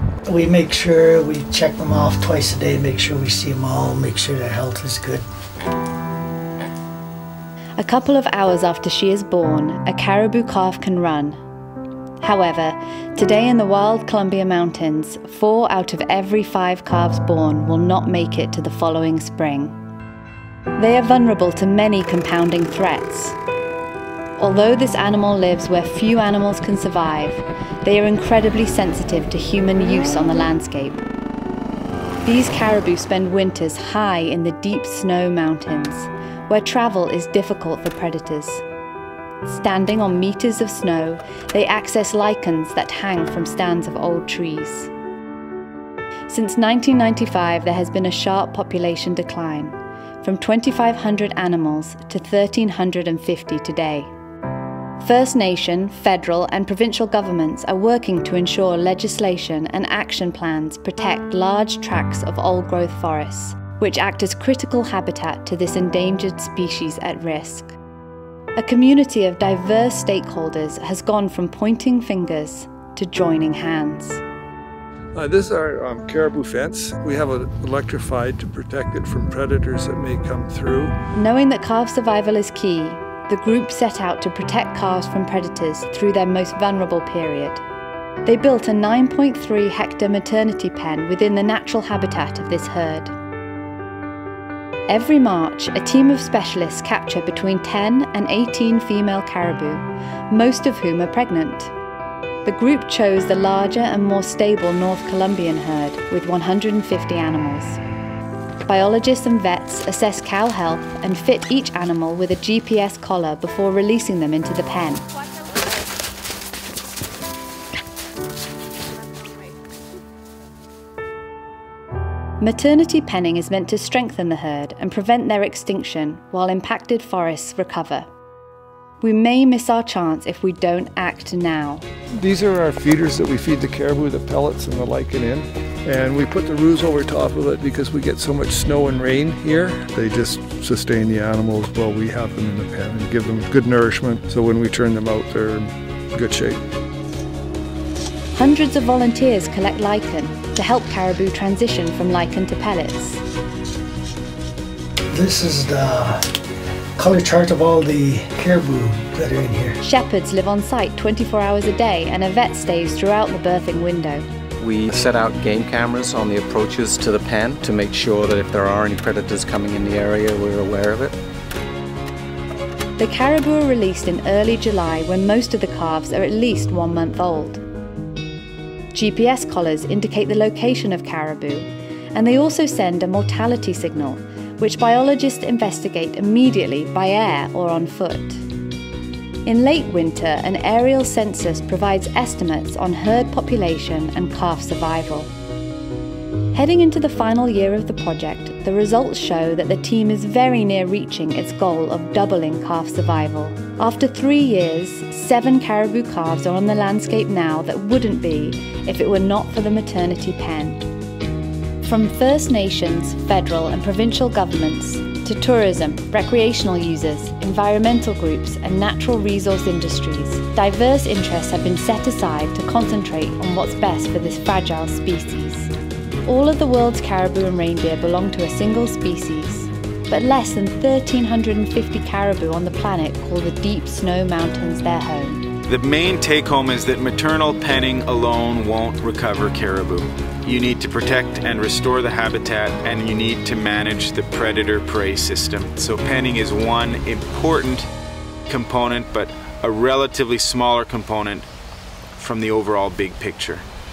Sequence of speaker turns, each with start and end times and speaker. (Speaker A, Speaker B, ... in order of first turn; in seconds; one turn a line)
Speaker A: 0.2-5.2
Speaker B: 7.8-11.4
Speaker B: 12.2-19.7
Speaker B: 20.8-23.4
Speaker B: 24.4-31.0
Speaker B: 32.2-38.6
Speaker B: 39.4-44.9
Speaker B: 46.3-54.1
Speaker B: 55.0-67.8
Speaker B: 68.6-74.2
Speaker C: 75.1-80.9
Speaker B: 81.1-87.6
Speaker B: 88.2-93.1
Speaker B: 94.9-101.7
Speaker B: 102.4-107.8
Speaker B: 108.7-115.0
Speaker B: 122.4-128.1
Speaker B: 129.0-131.8
Speaker C: 132.2-146.6
Speaker B: 148.3-153.2
Speaker A: 155.1-156.3
Speaker A: 157.0-159.8
Speaker B: 159.8-164.2
Speaker D: 164.6-171.1
Speaker B: 173.0-177.6
Speaker B: 178.9-188.5
Speaker B: 189.4-195.3
Speaker B: 196.5-210.8
Speaker B: 211.8-225.7
Speaker B: 226.2-235.5
Speaker E: 235.7-247.9
Speaker E: 248.5-251.5
Speaker E: 252.2-253.6